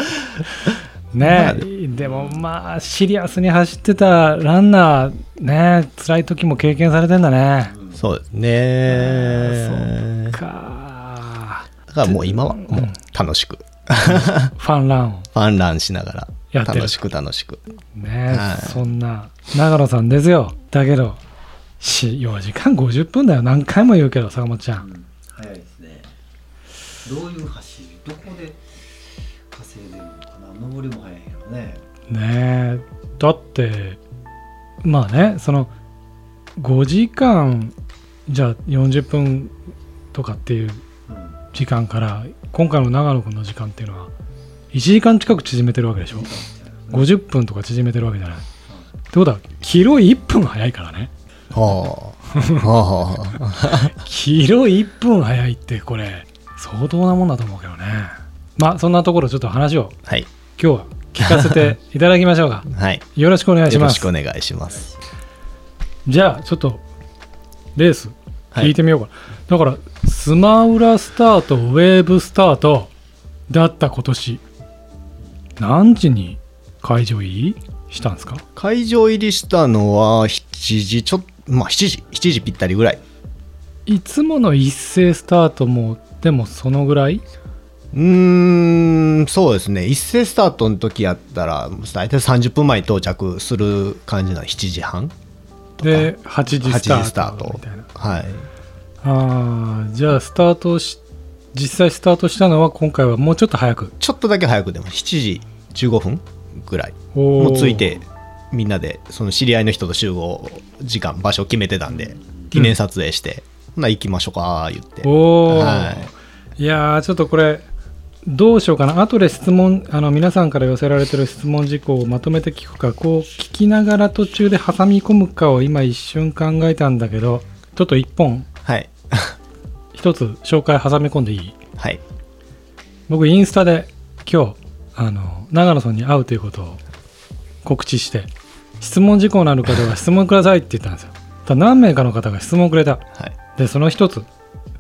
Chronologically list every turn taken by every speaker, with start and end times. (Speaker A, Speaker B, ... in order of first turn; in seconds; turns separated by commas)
Speaker A: 1.1-7.8, Speaker B: 1.2-1.7, Speaker C: 2.0-2.4, Speaker C: 7.7-8.1, Speaker B: 8.0-10.4, Speaker A: 9.4-12.9, Speaker B: 11.9-14.5, Speaker A: 14.1-15.3, Speaker B: 15.3-17.6, Speaker A: 16.5-17.0, Speaker A: 17.9-21.2, Speaker B: 18.3-18.8, Speaker A: 21.8-24.9, Speaker C: 24.8-26.1, Speaker C: 27.1-31.9, Speaker A: 32.1-34.0, Speaker A: 34.8-35.7, Speaker A: 36.6-37.8, Speaker A: 38.3-39.5, Speaker A: 40.1-40.8, Speaker C: 41.1-41.4, Speaker A: 41.5-44.1, Speaker A: 44.7-46.3, Speaker C: 46.1-47.1, Speaker A: 46.9-48.4, Speaker A: 49.1-51.1, Speaker B: 51.5-53.9, Speaker A: 52.4-52.7, Speaker A: 53.6-60.0, Speaker A: 60.6-64.1, Speaker B: 61.2-61.7, Speaker B: 62.7-63.0, Speaker B: 63.7-64.9, Speaker C: 64.7-65.0, Speaker A: 66.1-66.8, Speaker A: 67.8-72.9, Speaker A: 73.5-74.4, Speaker A: 75.6-78.4, Speaker B: 78.6-83.0, Speaker A: 83.9-87.2, Speaker B: 87.9-95.1, Speaker B: 95.8-96.1, Speaker A: 95.8-97.9, Speaker B: 96.6-98.5, Speaker A: 99.0-101.0, Speaker A: 101.5-104.0, Speaker B: 104.0-116.1, Speaker A: 107.1-108.0, Speaker C: 111.9-112.5, Speaker A: 115.0-117.7, Speaker A: 118.2-128.5, Speaker B: 128.7-129.4, Speaker A: 129.9-131.6, Speaker A: 133.1-136.8, Speaker A: 137.6-143.1, Speaker A: 143.6-144.3